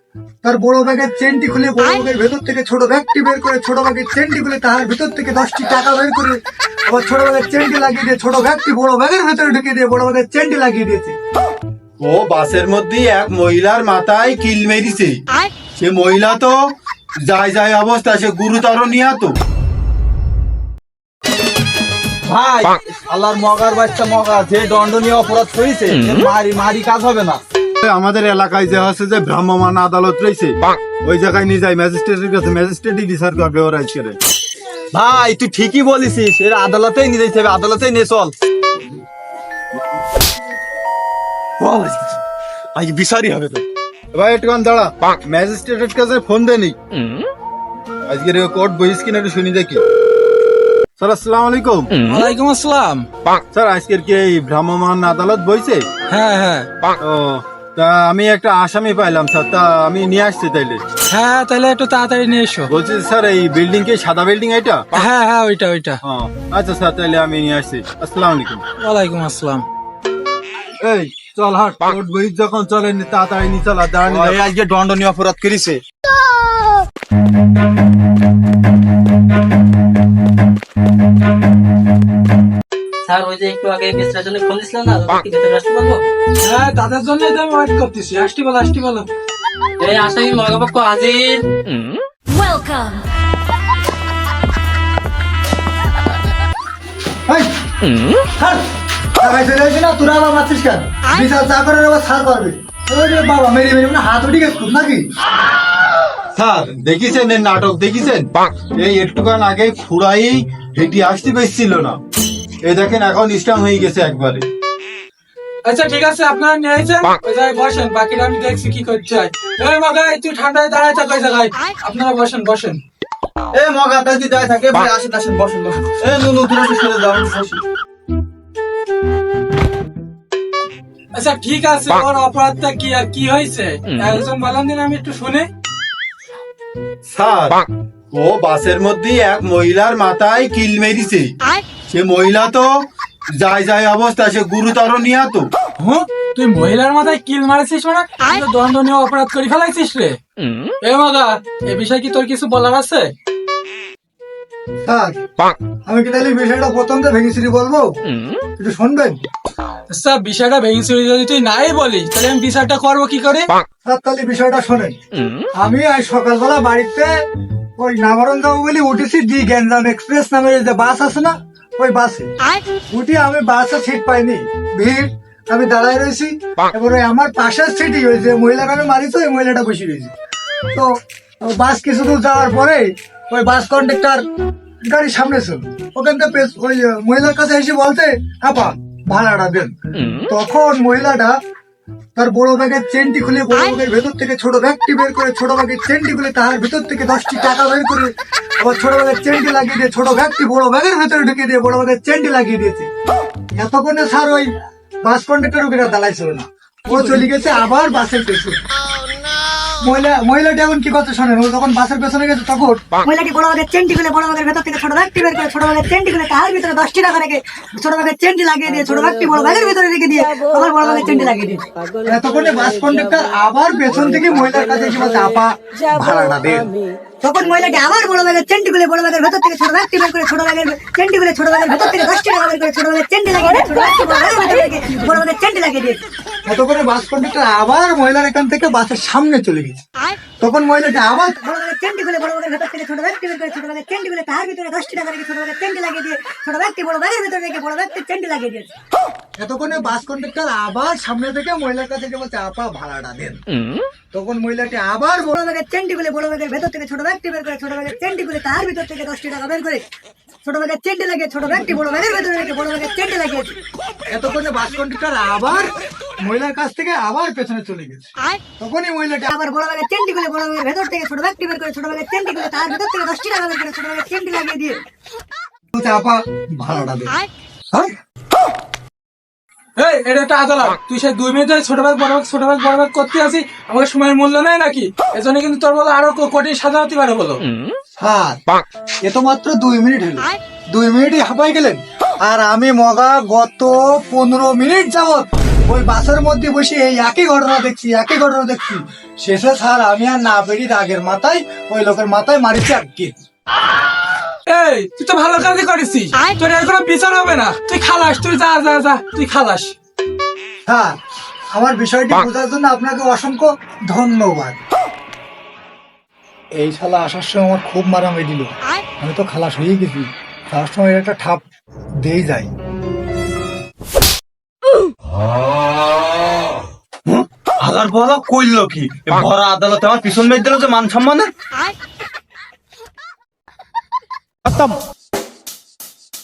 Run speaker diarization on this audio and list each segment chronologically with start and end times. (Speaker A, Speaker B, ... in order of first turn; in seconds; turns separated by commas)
Speaker A: 0.4-11.2, Speaker B: 12.0-15.2, Speaker B: 15.8-16.6, Speaker B: 17.2-19.3, Speaker C: 22.2-27.4, Speaker B: 27.8-34.2, Speaker C: 34.9-38.3, Speaker C: 41.6-42.2, Speaker C: 42.7-43.6, Speaker B: 44.1-46.7, Speaker B: 48.1-49.8, Speaker B: 51.0-51.9, Speaker D: 52.0-53.0, Speaker B: 53.5-55.9, Speaker D: 56.1-56.7, Speaker B: 57.0-60.8, Speaker D: 61.1-62.7, Speaker B: 62.7-64.8, Speaker D: 64.9-66.0, Speaker B: 66.0-68.6, Speaker D: 68.8-69.6, Speaker B: 70.8-74.4, Speaker C: 74.0-75.8, Speaker E: 83.0-86.0, Speaker D: 86.4-89.1, Speaker E: 89.8-91.4, Speaker A: 99.2-105.1, Speaker B: 106.3-112.0, Speaker B: 112.6-114.5, Speaker D: 115.7-122.8, Speaker C: 123.5-127.6, Speaker D: 131.1-135.5, Speaker B: 137.1-141.3, Speaker B: 141.9-142.8, Speaker B: 143.3-145.5, Speaker D: 145.8-150.2, Speaker D: 150.8-153.1, Speaker A: 154.8-155.2, Speaker A: 155.8-157.9, Speaker A: 158.6-159.2, Speaker D: 159.9-163.5, Speaker A: 163.8-164.9, Speaker A: 165.6-167.1, Speaker A: 167.8-172.3, Speaker A: 172.9-180.1, Speaker A: 181.4-184.2, Speaker A: 184.8-189.7, Speaker A: 190.3-191.4, Speaker A: 192.2-198.1, Speaker A: 198.6-202.9, Speaker A: 203.5-204.5, Speaker A: 205.0-208.6, Speaker D: 206.9-207.2, Speaker A: 209.8-212.8, Speaker F: 213.0-221.6, Speaker A: 222.0-226.7, Speaker F: 227.2-236.0, Speaker A: 236.4-239.8, Speaker A: 240.4-241.4, Speaker F: 241.3-248.7, Speaker A: 249.4-253.4, Speaker A: 254.1-255.4, Speaker F: 255.3-259.8, Speaker F: 260.4-263.6, Speaker A: 264.1-269.3, Speaker F: 269.3-274.8, Speaker A: 275.7-277.2, Speaker D: 279.8-287.4, Speaker A: 288.0-288.4, Speaker A: 289.0-303.1, Speaker D: 304.5-309.7, Speaker A: 310.6-310.9, Speaker A: 311.5-314.6, Speaker A: 316.6-321.4, Speaker A: 322.0-322.5, Speaker C: 327.1-331.3, Speaker C: 334.4-334.7